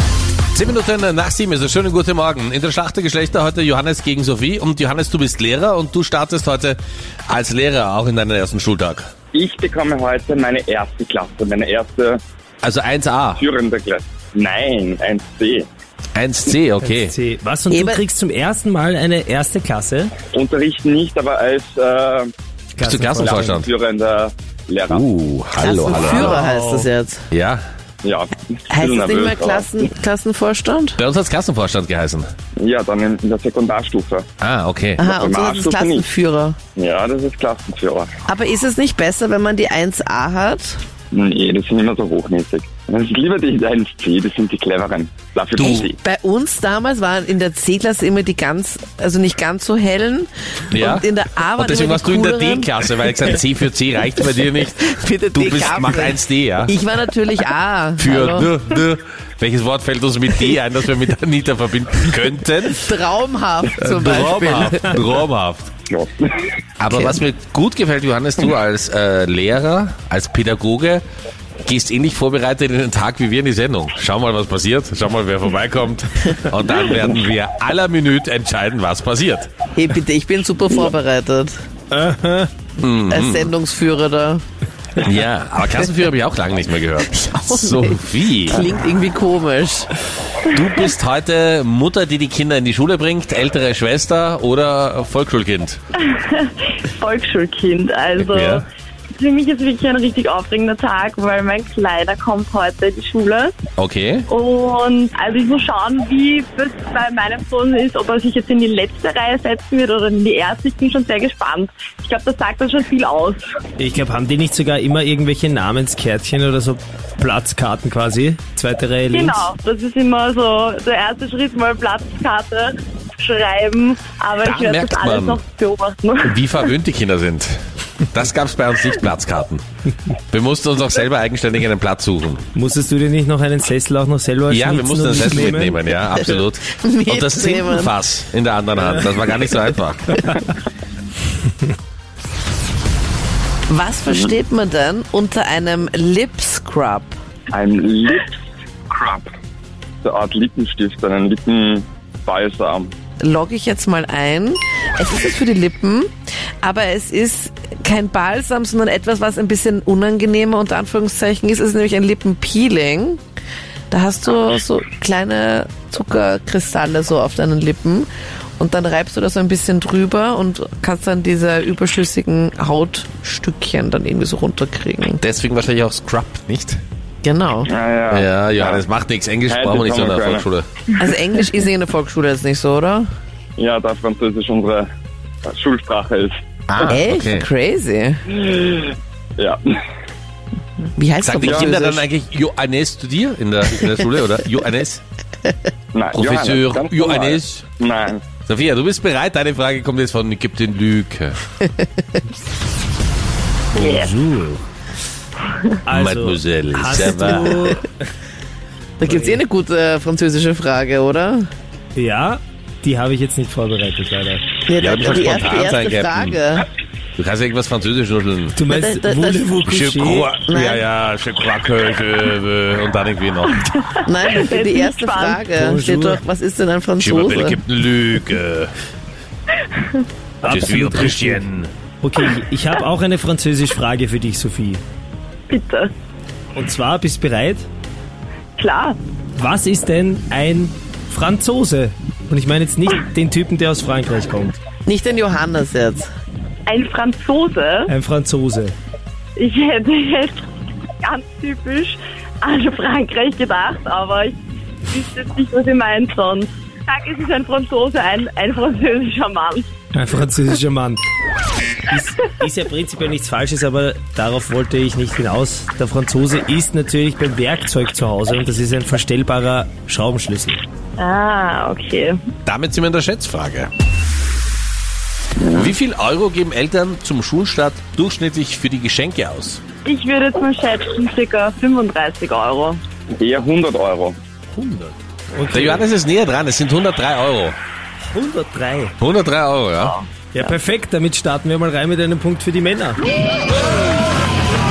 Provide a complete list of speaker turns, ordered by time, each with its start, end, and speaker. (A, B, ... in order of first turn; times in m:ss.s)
0:00.5-0:09.1 A
0:09.3-0:12.2 B
0:12.6-0:13.4 A
0:13.4-0:15.7 B
0:16.2-0:17.1 A
0:16.8-0:20.1 C
0:17.7-0:18.0 D
0:20.3-0:22.3 B
0:22.8-0:23.6 C
0:22.8-0:23.7 A
0:23.2-0:25.1 B
0:24.9-0:26.5 A
0:25.6-0:27.2 D
0:26.3-0:26.9 C
0:27.3-0:27.6 A
0:28.0-0:29.7 B
0:28.7-0:31.0 D
0:31.0-0:32.3 A
0:32.6-0:34.3 B
0:34.4-0:35.1 A
0:35.0-0:36.6 D
0:35.0-0:36.0 B
0:36.8-0:38.1 B
0:38.3-0:40.8 D
0:41.1-0:46.0 B
0:45.6-0:53.4 D
0:50.7-0:56.8 A
0:54.8-0:58.5 D
0:58.0-1:02.9 A
1:02.7-1:05.0 D
1:03.8-1:05.7 A
1:05.9-1:06.5 B
1:06.8-1:11.0 A
1:06.9-1:07.2 D
1:11.6-1:19.6 A
1:19.7-1:21.6 D
1:21.9-1:22.5 C
1:22.8-1:23.5 A
1:23.1-1:24.4 D
1:25.0-1:28.7 A
1:27.2-1:29.9 D
1:30.5-1:35.8 A
1:36.1-1:38.7 E
1:38.2-1:38.7 A
1:39.2-1:43.6 E
1:43.8-1:44.3 A
1:44.3-1:53.5 E
1:53.8-1:59.5 C
1:59.1-2:06.7 E
2:04.4-2:05.4 A
2:06.2-2:07.6 A
2:08.1-2:09.6 A
2:10.1-2:12.4 A
2:12.5-2:15.9 C
2:14.5-2:20.2 A
2:16.2-2:17.9 D
2:23.7-2:27.2 D
2:24.1-2:24.3 B
2:27.5-2:29.3 B
2:30.0-2:32.9 B
2:33.2-2:36.1 D
2:36.6-2:43.2 D
2:43.9-2:55.2 D
2:55.2-2:56.8 A
2:57.2-2:57.7 D
2:57.7-2:58.8 B
2:58.1-3:00.7 A
2:59.5-3:00.5 B
3:01.0-3:03.1 D
3:03.6-3:04.9 B
3:05.5-3:06.3 B
3:06.7-3:07.5 A
3:06.8-3:08.2 D
3:08.4-3:09.7 B
3:10.9-3:12.1 D
3:11.2-3:15.0 A
3:11.4-3:11.8 B
3:15.9-3:18.3 B
3:16.1-3:17.7 A
3:18.4-3:21.4 A
3:23.7-3:24.6 C
3:23.8-3:24.2 E
3:25.9-3:28.0 C
3:25.9-3:27.7 A
3:27.0-3:27.8 D
3:29.0-3:31.5 D
3:29.0-3:29.4 C
3:32.0-3:34.4 C
3:34.7-3:36.7 D
3:34.8-3:36.4 A
3:37.2-3:38.6 A
3:38.6-3:40.3 C
3:38.7-3:39.6 D
3:39.6-3:43.6 A
3:40.5-3:40.8 D
3:43.7-3:45.5 E
3:44.0-3:47.6 D
3:45.6-3:46.2 C
3:47.0-3:48.7 A
3:50.4-3:51.4 C
3:50.4-3:51.7 A
3:52.0-3:54.8 C
3:55.5-3:55.9 E
3:56.6-3:57.6 C
3:58.6-3:59.0 E
3:59.4-4:04.6 C
4:04.9-4:06.1 D
4:06.7-4:07.9 E
4:07.9-4:08.7 C
4:09.4-4:10.4 E
4:11.0-4:19.7 E
4:19.9-4:21.0 C
4:21.9-4:30.6 C
4:31.0-4:32.2 E
4:32.5-4:33.7 A
4:35.4-4:35.8 B
4:35.6-4:39.6 A
4:39.9-4:42.8 E
4:43.2-4:44.2 B
4:44.5-4:45.8 C
4:45.5-4:47.6 A
4:48.1-4:49.0 C
4:49.0-4:50.0 A
4:49.8-4:50.6 E
4:50.3-4:53.0 C